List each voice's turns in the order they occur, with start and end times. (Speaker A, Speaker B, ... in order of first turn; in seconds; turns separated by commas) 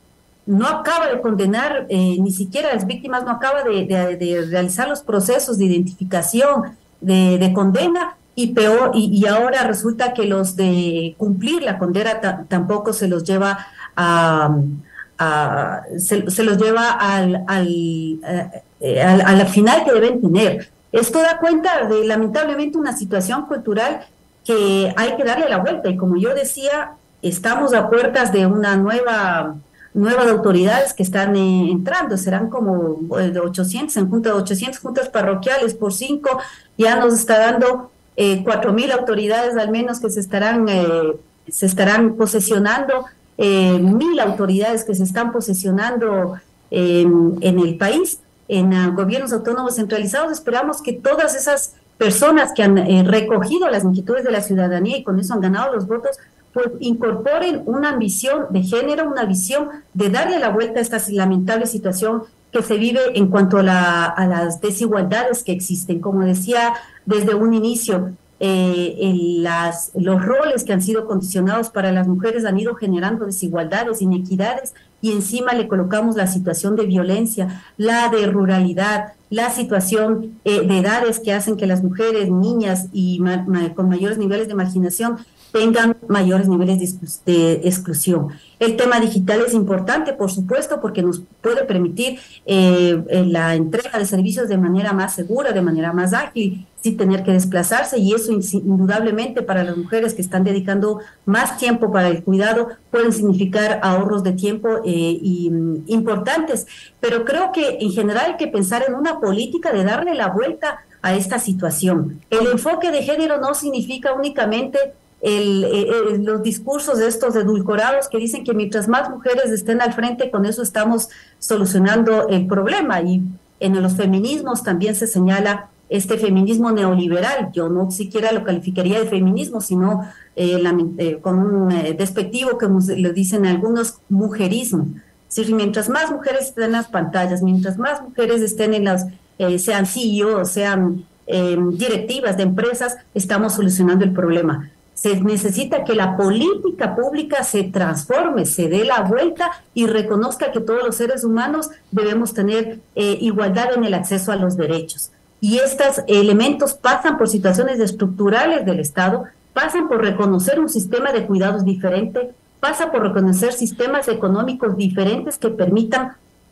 Speaker A: 0.5-166.2